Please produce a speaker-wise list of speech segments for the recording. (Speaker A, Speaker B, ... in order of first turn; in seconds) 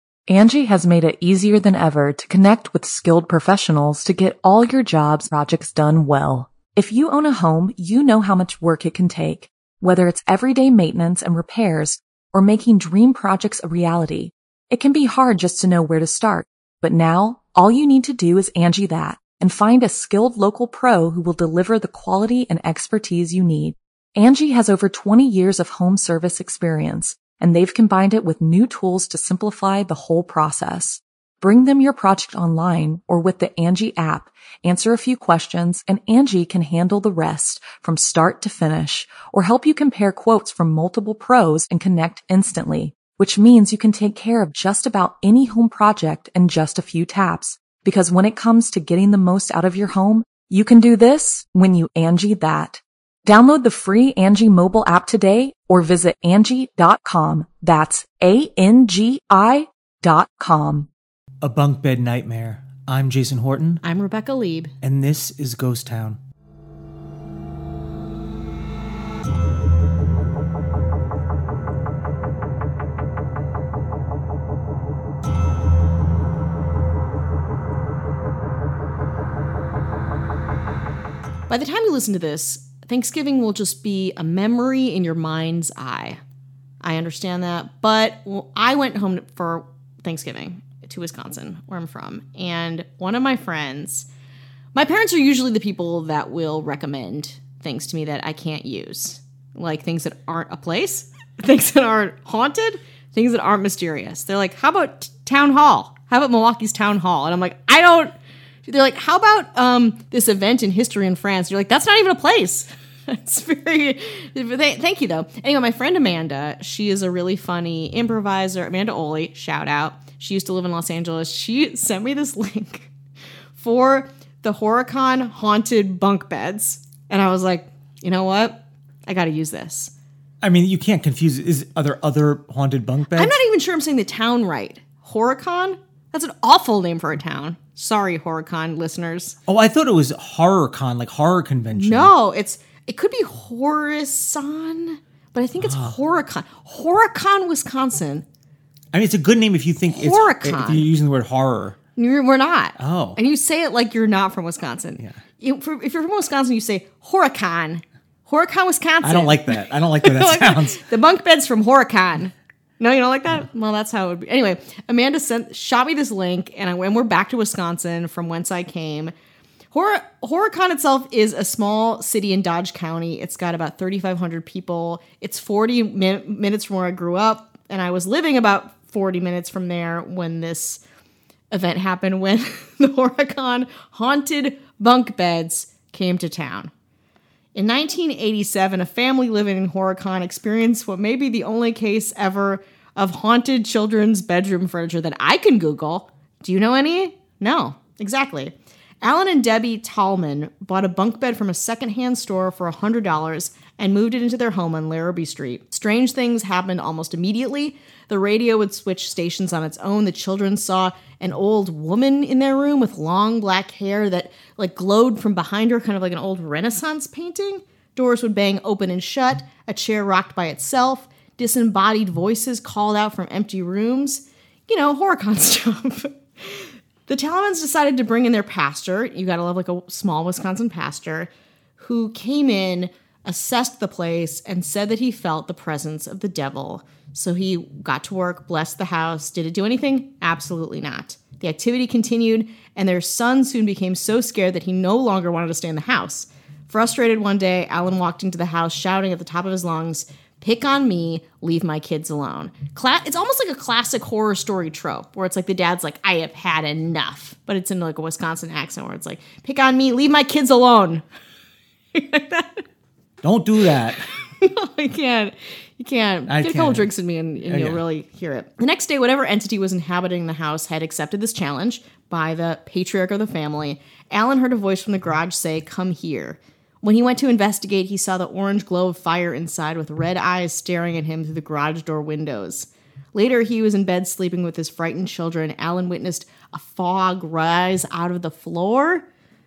Speaker A: 0.3-60.9
Speaker B: 61.4-63.8, 64.8-66.2, 130.4-133.4, 139.5-142.1, 145.6-145.9, 148.9-151.8, 152.8-153.2, 159.0-160.8, 263.2-264.0, 266.3-266.9, 267.4-267.8
Speaker C: 63.8-64.7, 81.5-86.2, 86.8-94.1, 94.7-108.2, 108.7-122.9, 123.6-129.9, 133.1-139.4, 141.8-148.2, 149.9-150.8, 151.9-169.1, 169.7-180.8, 181.5-186.7, 187.5-261.1, 261.9-262.6, 263.9-289.1